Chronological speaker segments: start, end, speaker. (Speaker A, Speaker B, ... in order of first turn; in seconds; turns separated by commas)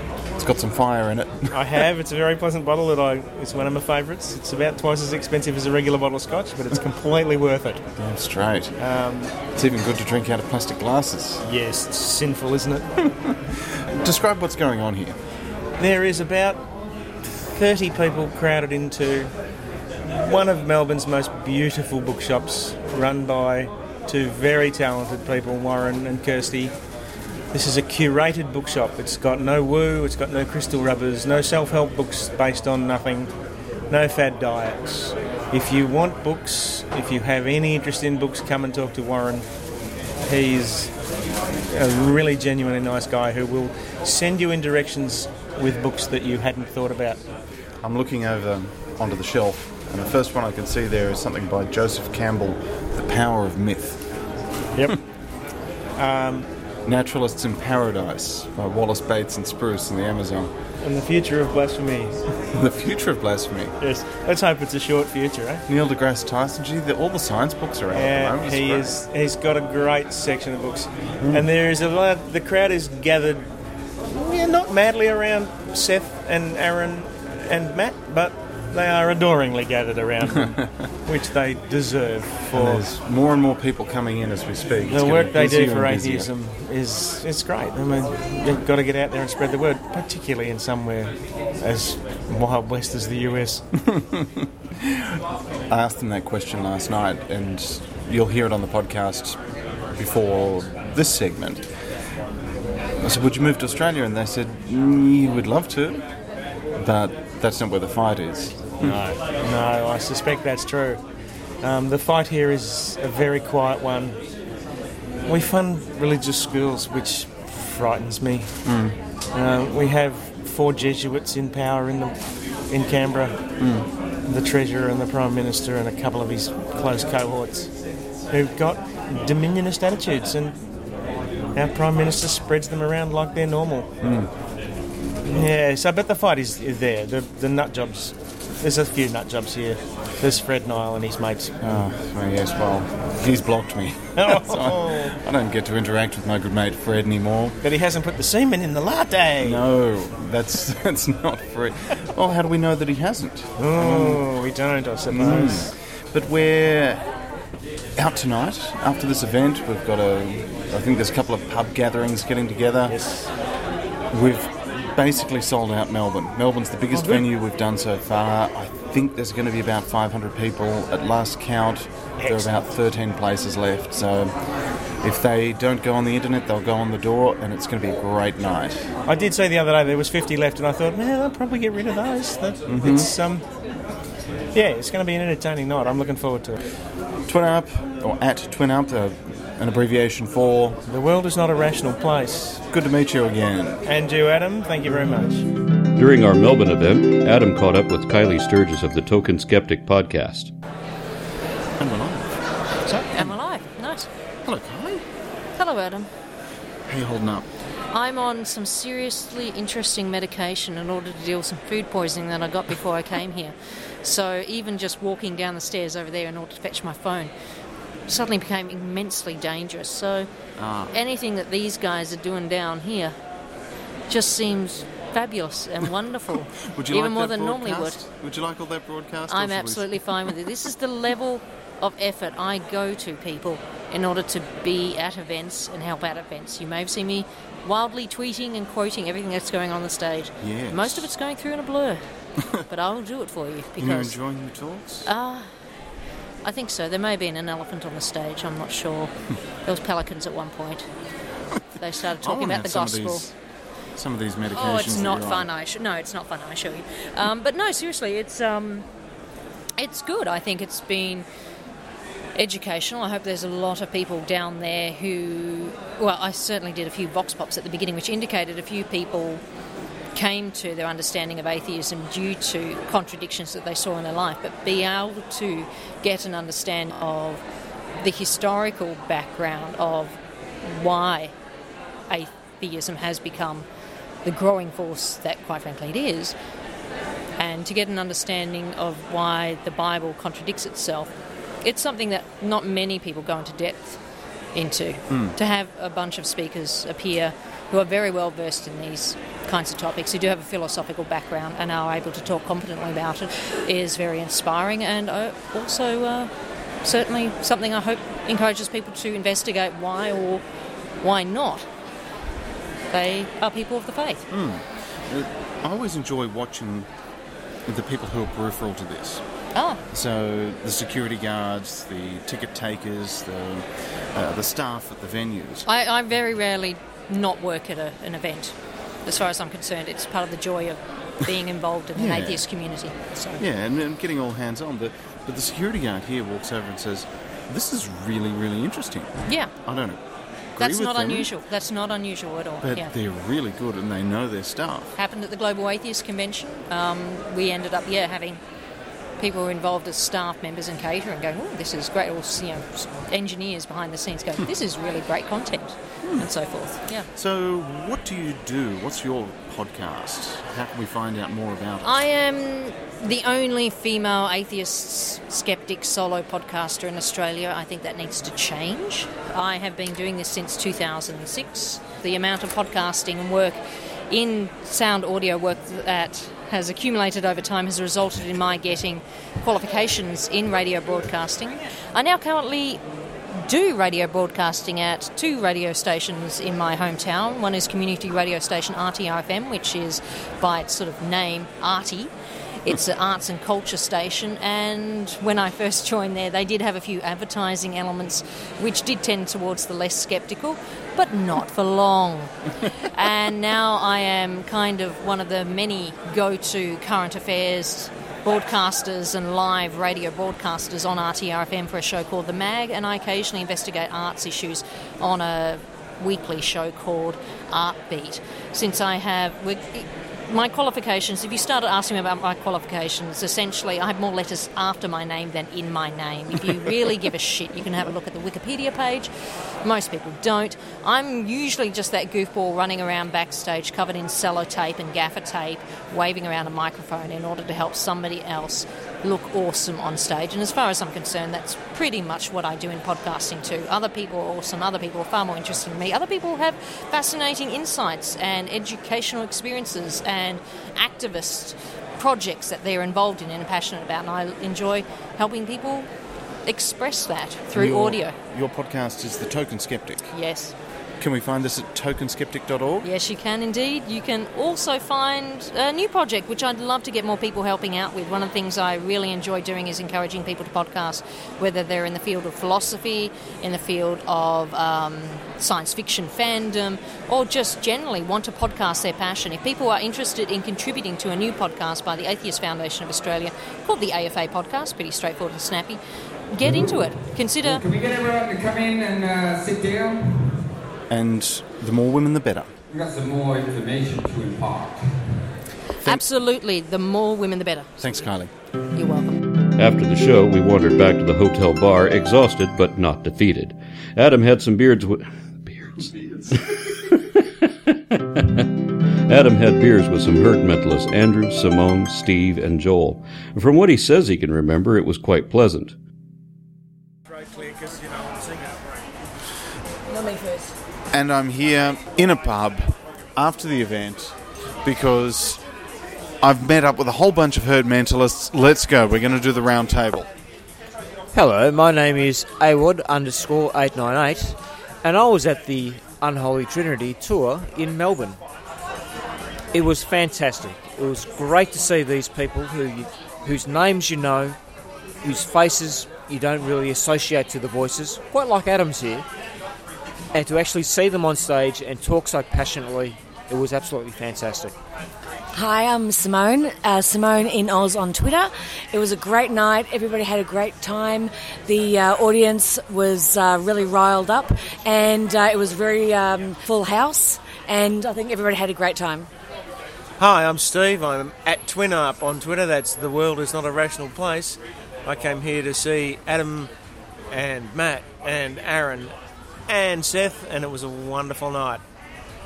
Speaker A: 0.4-1.8, Speaker B: 1.5-7.9, Speaker A: 8.0-8.8, Speaker B: 8.8-9.4, Speaker A: 9.5-11.4, Speaker B: 11.4-13.0, Speaker A: 14.0-15.2, Speaker B: 15.8-16.7, Speaker B: 17.5-19.3, Speaker B: 20.1-26.7, Speaker B: 27.5-33.4, Speaker B: 33.9-39.5, Speaker B: 40.2-41.0, Speaker B: 41.7-47.2, Speaker A: 47.8-54.0, Speaker B: 54.7-55.0, Speaker B: 56.0-56.5, Speaker A: 56.9-60.5, Speaker B: 60.8-62.2, Speaker A: 62.5-63.7, Speaker B: 63.8-65.6, Speaker A: 65.7-69.0, Speaker B: 67.9-73.5, Speaker A: 71.2-71.5, Speaker B: 74.1-82.8, Speaker A: 82.5-86.3, Speaker B: 84.8-93.6, Speaker A: 93.8-99.4, Speaker A: 100.0-101.7, Speaker A: 103.0-106.0, Speaker A: 106.8-109.0, Speaker B: 108.8-111.0, Speaker B: 111.6-114.2, Speaker B: 115.2-127.7, Speaker A: 118.6-119.0, Speaker A: 123.6-123.9, Speaker B: 128.3-130.6, Speaker B: 131.6-133.9, Speaker A: 134.0-134.3, Speaker B: 135.3-141.5, Speaker A: 141.6-147.6, Speaker B: 144.1-145.2, Speaker B: 147.6-149.6, Speaker A: 149.4-154.3, Speaker B: 153.6-155.7, Speaker A: 155.1-157.0, Speaker A: 157.9-163.1, Speaker B: 162.9-163.3, Speaker A: 164.1-178.9, Speaker B: 166.9-167.3, Speaker B: 172.2-172.6, Speaker B: 179.1-183.4, Speaker A: 182.7-183.1, Speaker B: 184.5-186.6, Speaker A: 187.3-190.8, Speaker B: 190.9-192.6, Speaker A: 192.7-193.8, Speaker B: 193.8-195.4, Speaker C: 196.0-200.5, Speaker A: 201.8-203.4, Speaker D: 203.1-204.1, Speaker A: 204.4-205.0, Speaker D: 205.6-206.1, Speaker A: 206.9-207.5, Speaker D: 207.9-217.3, Speaker D: 218.1-220.3, Speaker A: 220.6-221.0, Speaker D: 220.9-223.1, Speaker D: 224.1-228.0, Speaker A: 226.6-230.3, Speaker D: 229.3-242.0, Speaker A: 240.4-241.1, Speaker D: 242.7-244.2, Speaker A: 243.8-245.1, Speaker D: 245.1-245.5, Speaker D: 246.4-249.1, Speaker D: 249.6-250.9, Speaker D: 251.8-253.3, Speaker A: 251.8-253.3, Speaker A: 253.9-255.5, Speaker D: 254.5-258.9, Speaker D: 259.8-261.3, Speaker D: 262.4-269.4, Speaker D: 270.1-277.4, Speaker D: 278.0-281.3, Speaker D: 282.1-283.7, Speaker D: 284.2-286.4, Speaker D: 287.4-291.1, Speaker D: 291.6-294.0, Speaker D: 294.5-306.3, Speaker A: 295.1-295.4, Speaker D: 306.8-310.4, Speaker D: 311.0-311.7, Speaker D: 312.9-314.3, Speaker A: 314.3-316.9, Speaker A: 317.7-319.2, Speaker D: 319.5-319.8, Speaker A: 319.9-325.7, Speaker D: 325.7-328.6, Speaker D: 329.1-333.4, Speaker A: 331.9-332.4, Speaker A: 333.4-340.0, Speaker D: 339.3-339.5, Speaker D: 340.6-342.9, Speaker A: 340.6-341.3, Speaker A: 342.6-344.9, Speaker D: 345.0-348.4, Speaker D: 349.2-357.1, Speaker A: 357.1-362.1, Speaker D: 361.8-382.8, Speaker D: 383.3-429.1, Speaker D: 429.6-455.9, Speaker D: 456.4-458.1, Speaker A: 457.5-460.1, Speaker D: 460.1-460.5, Speaker A: 461.0-462.9, Speaker D: 462.8-485.8, Speaker D: 486.3-487.7, Speaker A: 486.4-486.8, Speaker E: 487.4-490.5, Speaker A: 490.9-492.5, Speaker E: 492.7-495.3, Speaker D: 495.8-497.7, Speaker A: 497.8-498.3, Speaker D: 498.7-499.2, Speaker C: 499.6-506.9, Speaker C: 507.7-508.5, Speaker C: 509.1-515.7, Speaker B: 517.4-517.9, Speaker A: 520.9-525.5, Speaker A: 526.2-530.1, Speaker F: 531.1-538.2, Speaker F: 539.5-544.4, Speaker F: 545.0-549.1, Speaker F: 550.1-554.6, Speaker G: 555.3-569.1, Speaker H: 570.0-576.5, Speaker H: 577.1-578.9, Speaker H: 579.5-581.6